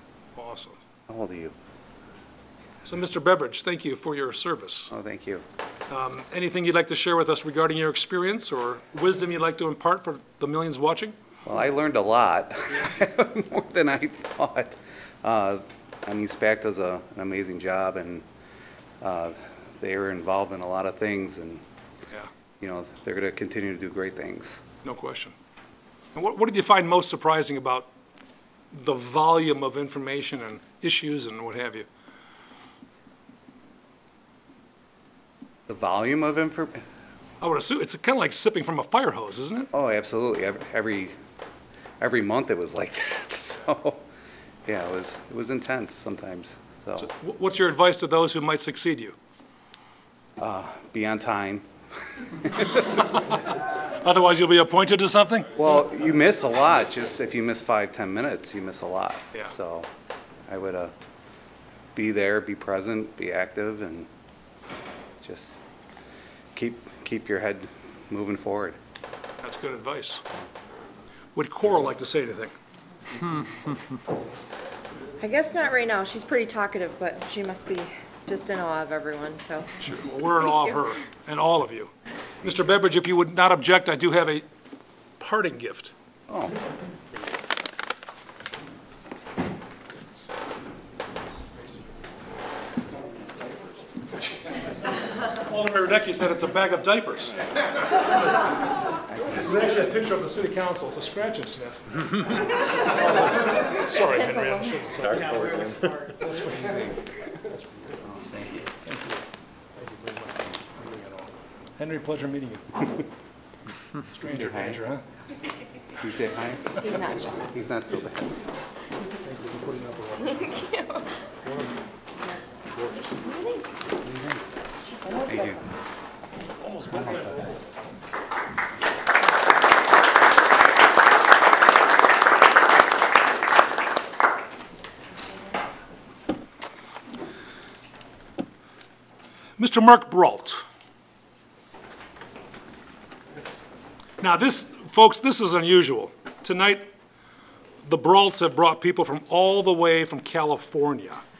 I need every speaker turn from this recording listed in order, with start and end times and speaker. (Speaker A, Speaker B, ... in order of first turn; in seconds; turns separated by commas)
Speaker A: 0.3-0.8, Speaker B: 1.1-1.5, Speaker A: 2.8-4.9, Speaker B: 4.9-5.4, Speaker A: 5.9-11.1, Speaker B: 11.4-18.2, Speaker A: 12.7-13.0, Speaker B: 19.0-21.6, Speaker B: 22.6-24.6, Speaker A: 24.8-25.3, Speaker A: 26.1-27.9, Speaker A: 28.7-31.9, Speaker B: 35.7-36.8, Speaker A: 37.4-39.7, Speaker B: 39.7-41.1, Speaker B: 42.0-44.0, Speaker B: 44.6-47.1, Speaker A: 47.0-49.1, Speaker B: 50.4-51.7, Speaker B: 52.2-52.9, Speaker A: 52.7-55.6, Speaker B: 55.5-59.9, Speaker B: 60.5-60.9, Speaker B: 61.9-64.1, Speaker B: 65.2-65.6, Speaker B: 66.5-68.8, Speaker A: 69.4-70.2, Speaker A: 71.3-72.5, Speaker C: 75.2-79.7, Speaker A: 79.8-81.9, Speaker A: 82.4-84.4, Speaker A: 85.2-85.9, Speaker B: 86.3-86.5, Speaker A: 95.3-97.4, Speaker A: 99.2-105.7, Speaker C: 103.9-106.2, Speaker B: 105.2-105.8, Speaker A: 106.2-108.0, Speaker B: 108.0-108.6, Speaker A: 108.8-109.2, Speaker A: 109.8-112.8, Speaker A: 114.0-115.0, Speaker B: 114.3-114.8, Speaker B: 116.0-118.4, Speaker C: 116.8-117.5, Speaker A: 119.2-120.7, Speaker C: 120.4-121.0, Speaker A: 121.4-121.8, Speaker A: 122.7-123.2, Speaker C: 123.2-123.7, Speaker B: 124.0-124.4, Speaker C: 124.8-125.6, Speaker B: 125.2-125.6, Speaker A: 126.6-127.7, Speaker A: 139.6-140.6, Speaker A: 144.2-146.9, Speaker A: 147.8-151.2